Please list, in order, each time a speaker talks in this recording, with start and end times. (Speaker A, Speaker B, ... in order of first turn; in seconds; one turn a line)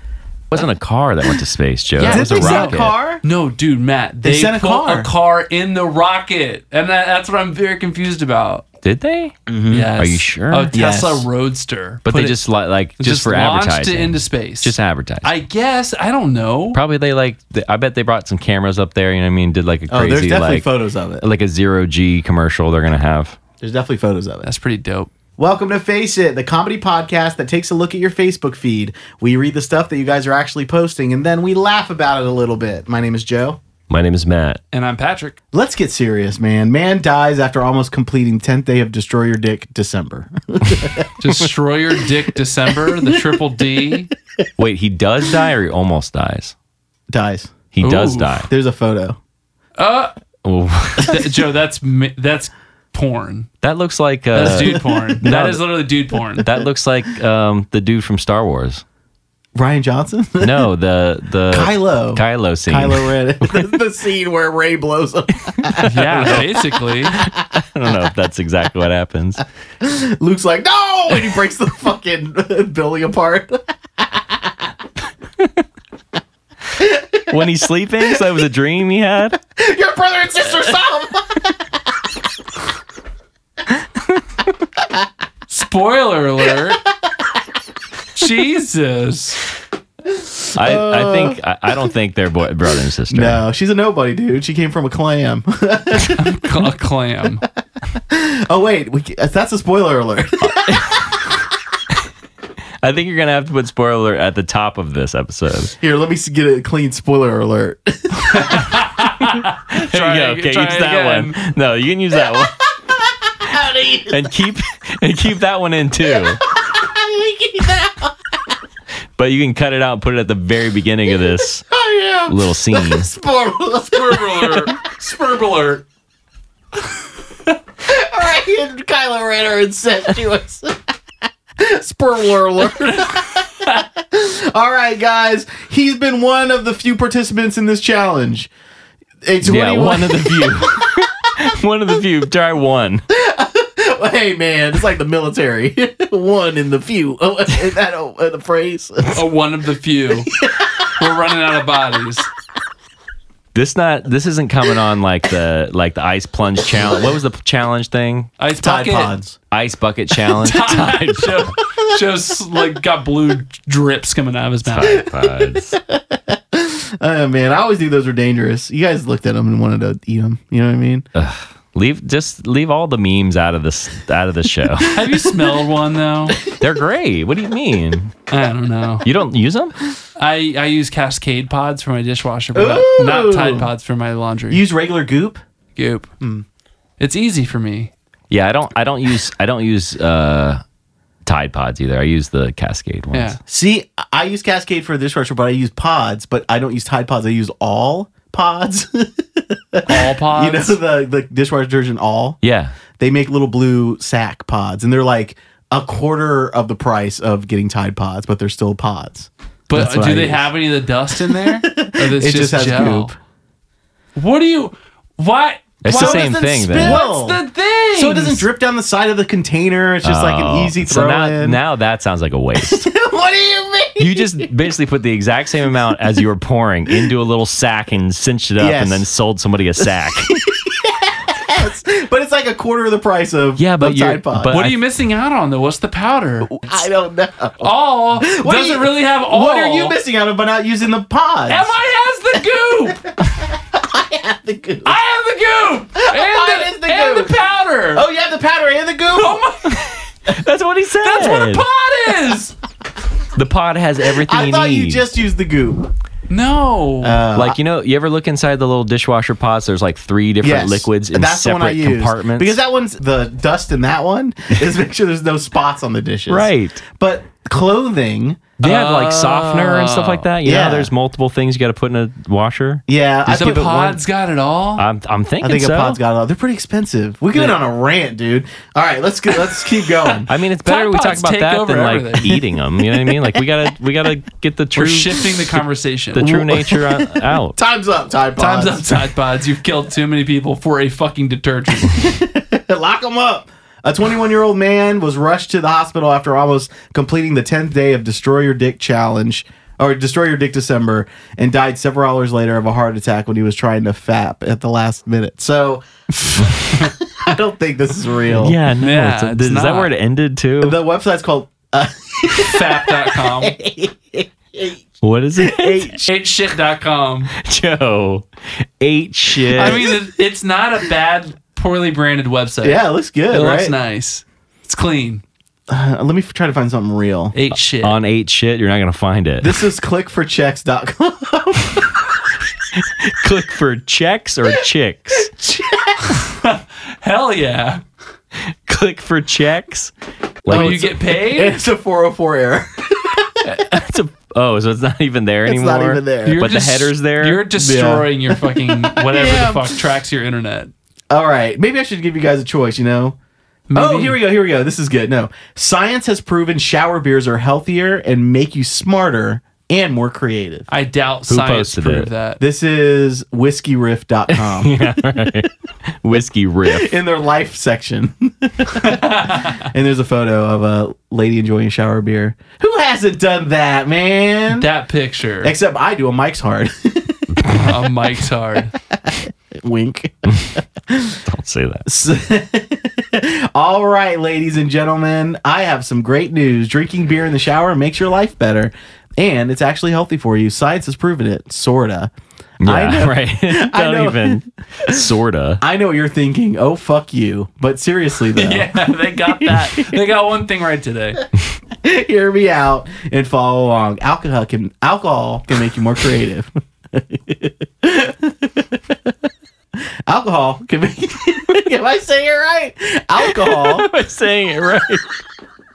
Speaker A: 0.5-2.9
Speaker B: 2.0-8.7
Speaker C: 2.0-3.2
Speaker C: 4.2-5.1
Speaker A: 8.8-10.7
Speaker C: 9.5-9.9
Speaker B: 9.7-12.5
Speaker C: 10.7-11.3
Speaker A: 12.1-15.4
Speaker B: 13.0-16.8
Speaker A: 16.7-23.4
Speaker C: 19.9-21.3
Speaker C: 23.6-24.5
Speaker B: 24.4-25.1
Speaker C: 25.4-33.6
Speaker A: 33.9-34.6
Speaker B: 34.7-35.4
Speaker C: 35.5-41.1
Speaker B: 41.2-44.1
Speaker C: 42.8-44.5
Speaker A: 44.6-46.5
Speaker C: 45.2-45.5
Speaker C: 47.1-47.5
Speaker A: 47.7-48.5
Speaker B: 47.8-48.4
Speaker C: 48.5-49.2
Speaker B: 49.8-50.1
Speaker A: 50.5-51.2
Speaker B: 51.0-53.5
Speaker A: 53.6-55.9
Speaker B: 54.3-56.5
Speaker C: 54.4-55.3
Speaker C: 56.4-56.7
Speaker A: 56.4-58.8
Speaker C: 59.5-60.7
Speaker A: 60.4-63.8
Speaker C: 61.5-67.3
Speaker A: 65.7-66.5
Speaker B: 65.8-67.2
Speaker A: 67.1-69.4
Speaker C: 69.8-74.7
Speaker C: 76.8-78.2
Speaker A: 77.3-79.4
Speaker C: 79.6-81.8
Speaker B: 85.5-86.8
Speaker B: 88.2-89.4
Speaker C: 90.1-91.9
Speaker A: 90.5-93.4
Speaker C: 93.1-96.5
Speaker B: 96.1-97.4
Speaker C: 98.0-101.0
Speaker A: 100.4-101.2
Speaker A: 102.8-105.7
Speaker C: 105.8-108.8
Speaker B: 108.3-111.4
Speaker A: 109.7-112.6
Speaker C: 112.4-114.3
Speaker A: 114.1-116.4
Speaker C: 116.0-118.2
Speaker A: 119.2-121.7
Speaker C: 121.7-124.8
Speaker A: 122.3-123.1
Speaker B: 123.9-125.8
Speaker C: 127.8-130.8
Speaker C: 131.6-138.5
Speaker C: 139.2-140.9
Speaker A: 139.4-143.0
Speaker C: 143.1-149.2
Speaker B: 149.1-150.3
Speaker C: 150.3-150.8
Speaker B: 150.9-152.3
Speaker A: 153.5-158.3
Speaker C: 156.8-157.1
Speaker B: 158.4-159.2
Speaker C: 158.6-159.4
Speaker A: 159.5-161.5
Speaker B: 160.3-165.1
Speaker C: 164.8-171.1
Speaker A: 164.8-165.8
Speaker A: 171.2-175.0
Speaker B: 174.9-176.4
Speaker A: 176.6-178.1
Speaker B: 178.3-179.1
Speaker A: 179.0-179.7
Speaker B: 180.2-184.6
Speaker C: 182.6-183.7
Speaker C: 184.5-185.4
Speaker B: 185.8-186.1
Speaker C: 186.2-186.4
Speaker B: 187.0-187.9
Speaker A: 188.3-190.6
Speaker A: 191.3-193.4
Speaker B: 193.1-193.4
Speaker C: 193.5-202.4
Speaker B: 199.9-200.8
Speaker A: 202.4-202.8
Speaker C: 203.0-210.5
Speaker B: 209.7-213.1
Speaker C: 211.2-213.2
Speaker B: 214.2-218.5
Speaker A: 215.8-217.0
Speaker C: 215.8-217.4
Speaker C: 217.9-221.6
Speaker A: 220.0-222.9
Speaker C: 222.6-224.5
Speaker A: 224.0-230.4
Speaker C: 225.7-226.0
Speaker C: 228.6-229.1
Speaker C: 229.8-234.6
Speaker A: 233.6-234.8
Speaker B: 234.5-236.8
Speaker C: 236.4-241.7
Speaker B: 237.6-240.0
Speaker B: 241.5-243.1
Speaker C: 243.2-245.0
Speaker B: 244.8-248.1
Speaker C: 245.9-247.4
Speaker C: 247.9-249.4
Speaker B: 249.1-250.2
Speaker A: 250.3-251.7
Speaker B: 251.0-252.6
Speaker A: 253.3-255.0
Speaker C: 254.1-255.9
Speaker B: 256.3-257.3
Speaker C: 257.0-257.6
Speaker A: 257.3-262.6
Speaker C: 260.4-268.6
Speaker A: 266.3-266.8
Speaker B: 268.6-270.3
Speaker A: 268.6-273.6
Speaker C: 270.4-270.9
Speaker C: 272.9-274.0
Speaker B: 273.3-274.9
Speaker A: 274.8-276.0
Speaker C: 275.4-280.3
Speaker A: 280.3-285.6
Speaker B: 280.6-282.4
Speaker C: 282.9-283.4
Speaker B: 284.8-286.3
Speaker A: 286.1-287.6
Speaker C: 286.2-289.3
Speaker B: 288.4-292.0
Speaker C: 291.7-308.6
Speaker B: 306.2-306.9
Speaker A: 308.4-310.8
Speaker B: 308.8-309.9
Speaker C: 310.6-314.8
Speaker B: 312.4-313.5
Speaker A: 315.0-316.0
Speaker C: 315.4-316.1
Speaker B: 316.0-317.3
Speaker A: 317.4-318.3
Speaker A: 318.8-319.9
Speaker B: 319.5-325.2
Speaker C: 319.6-320.1
Speaker C: 322.6-323.8
Speaker C: 325.7-327.4
Speaker B: 327.3-328.0
Speaker A: 327.8-329.6
Speaker C: 329.4-332.1
Speaker A: 333.1-335.3
Speaker C: 335.3-336.2
Speaker B: 336.0-337.8
Speaker A: 338.7-339.9
Speaker A: 340.4-340.8
Speaker C: 340.5-343.4
Speaker B: 340.5-341.6
Speaker A: 343.4-347.5
Speaker C: 345.5-346.5
Speaker B: 346.2-350.7
Speaker C: 347.5-349.8
Speaker C: 351.1-353.2
Speaker B: 353.7-354.2
Speaker C: 353.8-360.7
Speaker B: 360.7-362.4
Speaker A: 361.3-362.1
Speaker C: 362.4-364.8
Speaker A: 364.4-366.9
Speaker C: 366.7-374.7
Speaker B: 368.8-369.7
Speaker B: 374.5-375.6
Speaker C: 375.4-377.4
Speaker B: 377.5-378.7
Speaker C: 378.9-381.2
Speaker A: 381.3-381.8
Speaker C: 381.9-392.1
Speaker C: 392.6-395.0
Speaker A: 392.6-395.6
Speaker C: 395.6-400.0
Speaker B: 398.4-401.2
Speaker C: 401.8-409.0
Speaker C: 410.1-413.9
Speaker A: 413.2-415.0